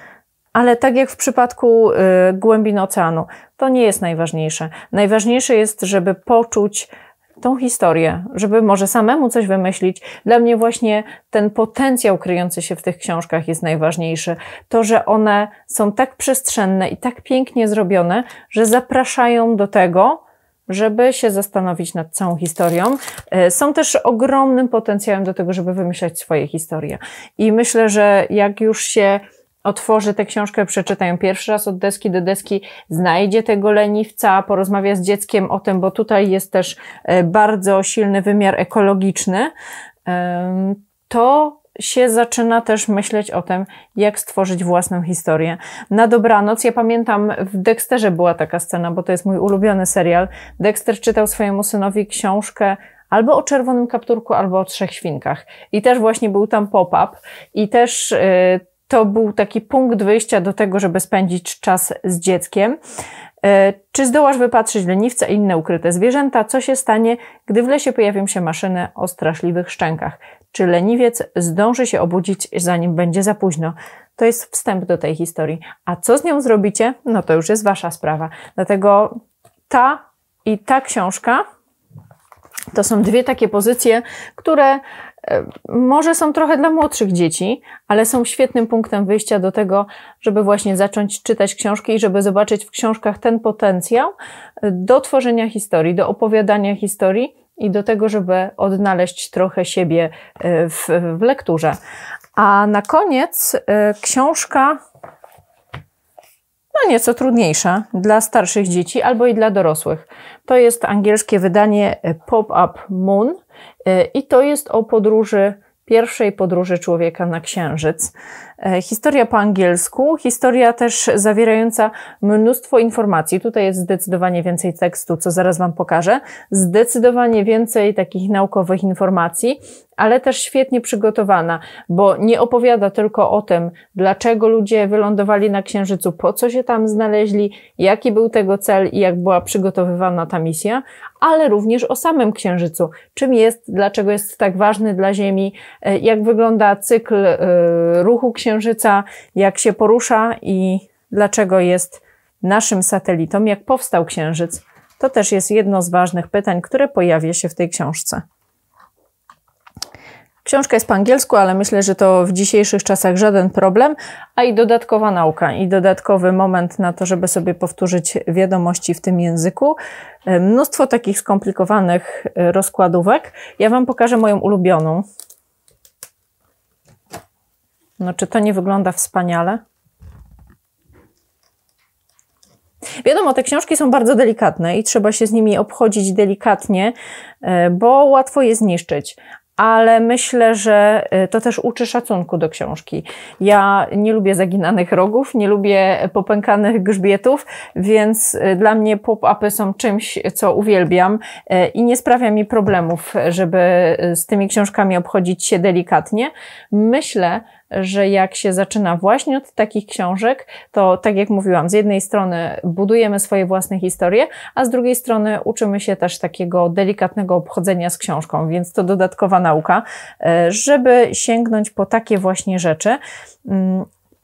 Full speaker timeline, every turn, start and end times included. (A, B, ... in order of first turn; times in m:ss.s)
0:00.5-0:39.5 A
0:40.0-1:02.8 A
1:03.4-1:19.1 A
1:19.7-1:21.4 A
1:22.7-1:41.8 A
1:42.3-1:44.8 A
1:46.7-2:38.2 A
2:40.4-2:55.0 A
2:58.0-2:59.6 A
3:03.0-3:43.9 A